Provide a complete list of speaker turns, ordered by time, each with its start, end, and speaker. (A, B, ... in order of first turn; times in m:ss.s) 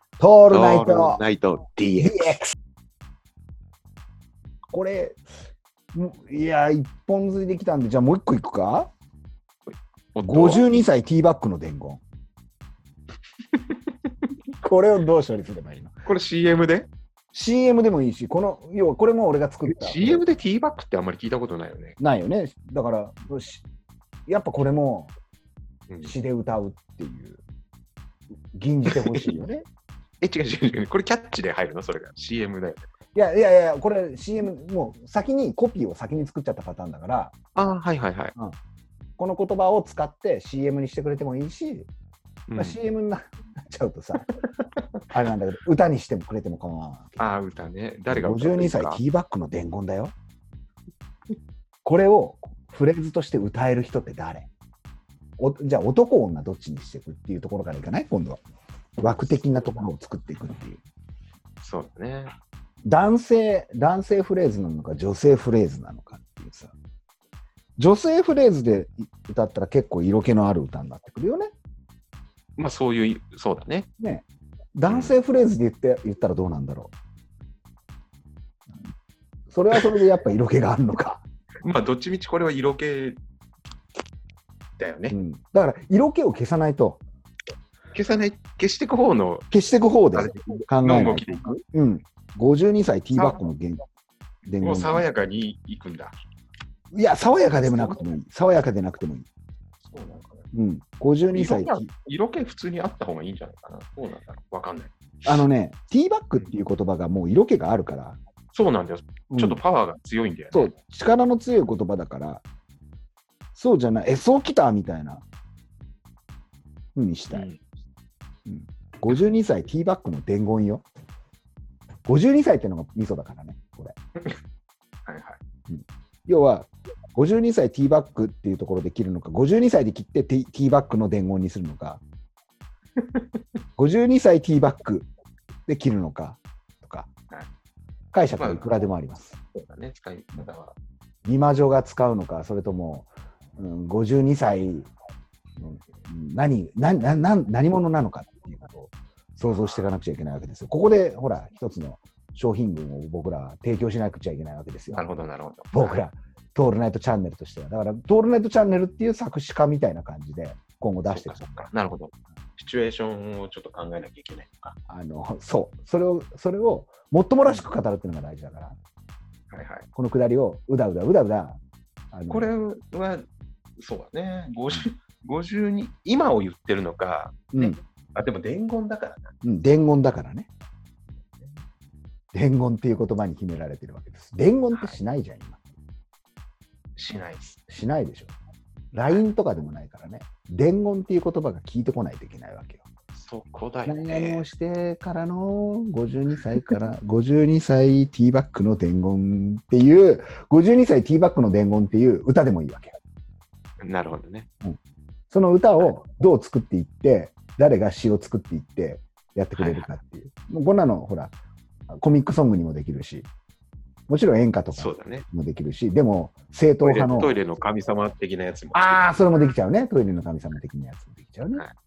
0:00.2-0:01.2 A
0:00.5-0:02.3 B
0:02.0-0:02.5 A
0:04.7-0:05.2 A
0:05.9-0:08.9 A
0:10.2-0:10.7 B
0:10.3-0:12.0 A
0:13.5-0:13.9 B
0:14.6-0:16.0 A
0:16.0-0:16.9 B
0:17.3-0:20.2 A
0:19.6-0:22.0 B
0:22.0-0:23.6 A
0:24.3-0:25.1 A
0:26.0-0:27.4 A
0:28.5-0:29.7 A
0:30.2-0:32.8 B
0:33.1-0:37.4 A
0:37.6-0:38.3 B
0:39.2-0:41.9 A
0:42.5-0:42.8 B
0:42.6-0:44.3 A
0:44.3-0:44.8 B
0:45.1-0:47.3 A
0:47.2-0:49.0 B
0:48.1-0:50.1 A
0:51.8-0:54.5 A
0:55.4-0:58.4 A
0:59.0-1:00.8 A
1:01.6-1:02.3 B
1:02.8-1:06.7 A
1:07.8-1:11.5 A
1:12.6-1:13.9 B
1:14.0-1:16.9 A
1:14.9-1:15.2 B
1:19.5-1:21.2 A
1:21.6-1:23.2 B
1:24.8-1:25.2 B
1:25.1-1:27.0 A
1:27.9-1:29.5 B
1:29.5-1:33.8 A
1:30.1-1:31.6 B
1:33.1-1:33.4 B
1:34.5-1:35.0 A
1:34.6-1:36.2 B
1:36.9-1:39.3 A
1:37.4-1:38.1 B
1:39.9-1:40.5 B
1:40.5-1:41.9 A
1:41.3-1:45.5 B
1:45.3-1:48.2 A
1:48.5-1:50.7 B
1:49.3-1:49.6 A
1:50.5-1:52.4 A
1:53.5-1:55.2 A
1:57.0-1:57.5 A
1:57.3-1:57.6 B
1:58.5-2:00.8 A
2:02.1-2:04.0 A
2:05.1-2:05.4 B
2:05.7-2:12.0 A
2:13.0-2:13.2 B
2:13.8-2:15.1 A
2:15.7-2:17.1 A
2:18.1-2:19.4 A
2:18.3-2:18.7 B
2:19.5-2:20.8 B
2:21.2-2:24.9 A
2:25.6-2:35.1 A
2:29.5-2:29.9 B
2:34.9-2:36.0 B
2:35.7-2:41.7 A
2:41.1-2:44.8 B
2:44.9-2:48.8 A
2:47.4-2:47.7 B
2:49.5-2:49.9 B
2:50.0-2:51.6 A
2:52.1-2:52.5 A
2:52.3-2:53.3 B
2:53.8-2:59.3 B
2:59.4-3:00.5 A
3:02.3-3:05.6 A
3:07.0-3:07.6 B
3:07.7-3:08.4 A
3:08.9-3:12.8 A
3:13.1-3:14.5 B
3:13.9-3:23.0 A
3:23.8-3:24.5 B
3:25.3-3:31.4 A
3:29.6-3:29.9 B
3:31.9-3:33.3 A
3:34.1-3:37.4 A
3:34.8-3:35.2 B
3:36.8-3:39.0 B
3:38.7-3:41.7 A